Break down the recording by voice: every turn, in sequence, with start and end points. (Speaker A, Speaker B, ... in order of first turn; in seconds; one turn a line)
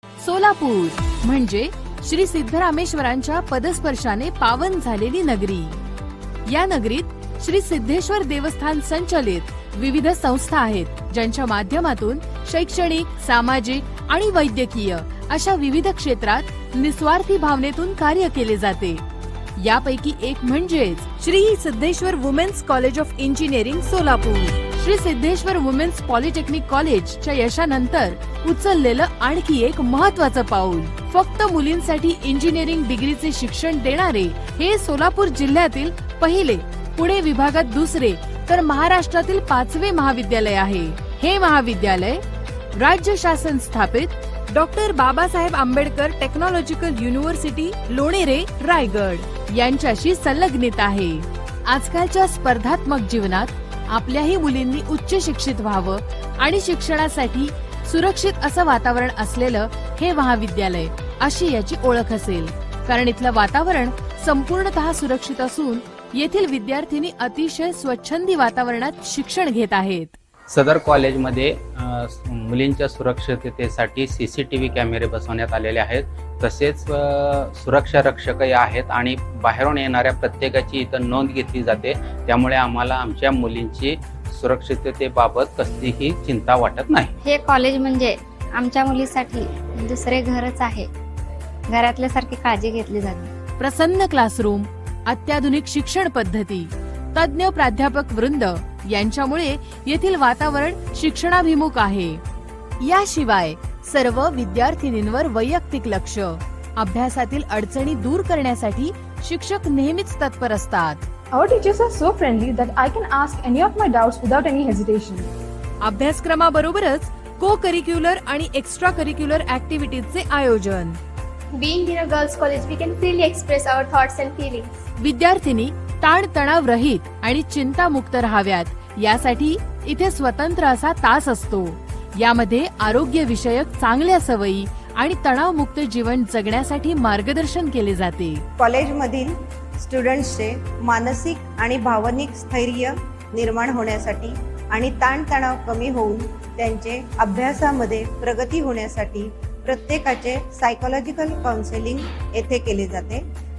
Speaker A: 0.2-5.8
Speaker A: 6.5-19.0
Speaker A: 19.6-42.2
Speaker A: 42.7-70.2
Speaker B: 70.5-87.1
Speaker C: 87.2-90.9
Speaker C: 91.7-93.3
Speaker A: 93.6-102.2
Speaker A: 102.8-111.1
Speaker D: 111.3-115.3
Speaker A: 115.8-121.0
Speaker E: 121.6-124.6
Speaker A: 125.0-138.4
Speaker F: 138.6-153.2